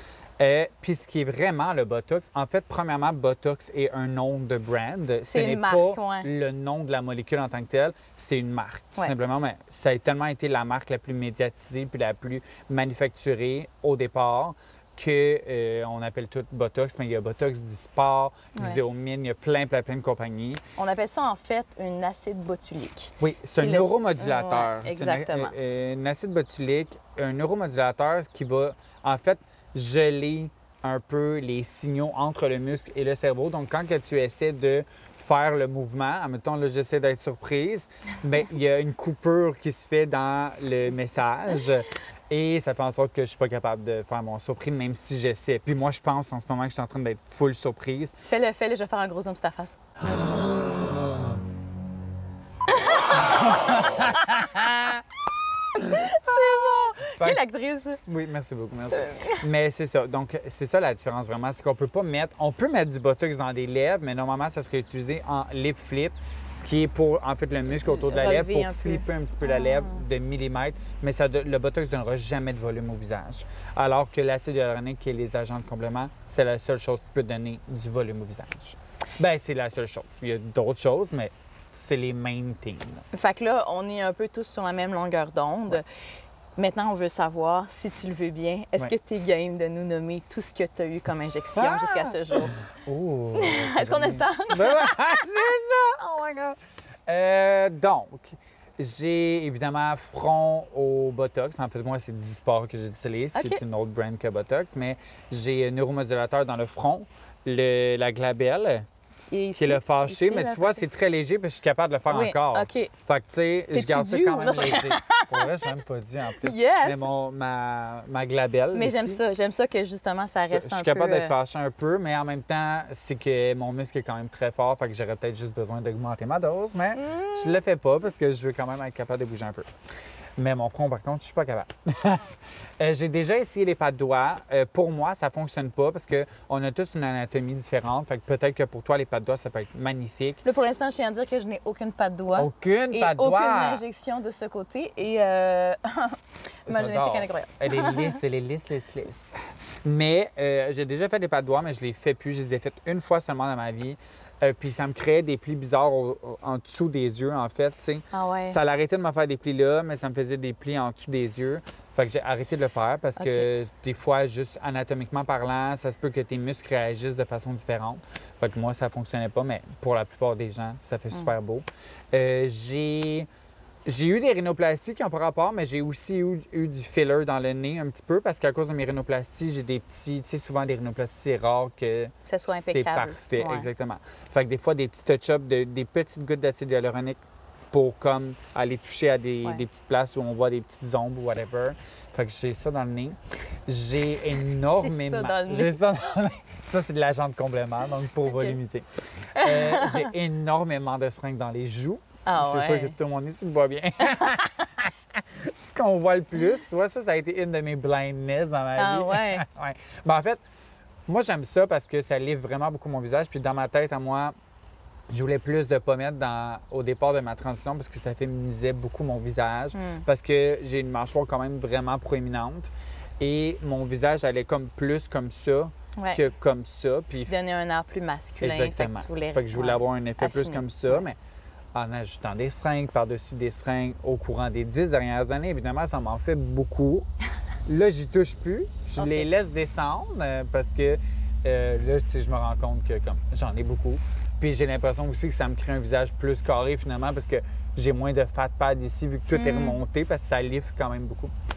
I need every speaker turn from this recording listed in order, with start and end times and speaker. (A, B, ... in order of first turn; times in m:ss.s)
0:00.4-0:20.6 A
0:05.3-0:06.3 B
0:18.5-0:18.8 B
0:20.8-0:25.5 B
0:23.2-0:48.2 A
0:48.2-0:49.8 B
0:52.9-0:54.3 B
0:53.1-0:55.0 A
0:55.7-0:57.4 A
0:55.8-0:58.0 B
0:58.0-1:23.0 A
0:58.9-0:59.4 B
1:07.9-1:10.0 B
1:23.1-1:25.8 B
1:26.6-1:32.5 B
1:31.5-1:48.9 A
1:33.3-1:35.4 B
1:43.3-1:43.6 B
1:49.3-1:50.8 B
1:49.6-1:59.2 A
1:52.1-1:52.9 B
1:53.7-1:55.6 B
1:56.4-1:57.0 B
1:58.7-2:01.3 B
2:00.4-2:09.7 A
2:07.0-2:07.6 B
2:10.4-2:20.4 A
2:20.4-2:28.2 B
2:22.3-2:23.8 A
2:26.7-2:53.3 A
2:38.1-2:38.6 B
2:43.2-2:43.5 B
2:53.8-3:07.2 A
3:02.3-3:03.7 B
3:07.7-3:30.4 A
3:14.7-3:15.8 B
3:18.3-3:18.6 B
3:19.3-3:20.1 B
3:22.2-3:22.9 B
3:28.8-3:29.4 B
3:31.1-3:34.3 A
3:35.1-3:47.4 A
3:39.7-3:40.0 B
3:46.0-3:46.2 B
3:47.2-3:51.0 B
3:48.4-3:51.2 A
3:51.7-3:57.1 A
3:57.6-4:11.3 A
3:59.0-3:59.3 B
4:09.3-4:09.8 B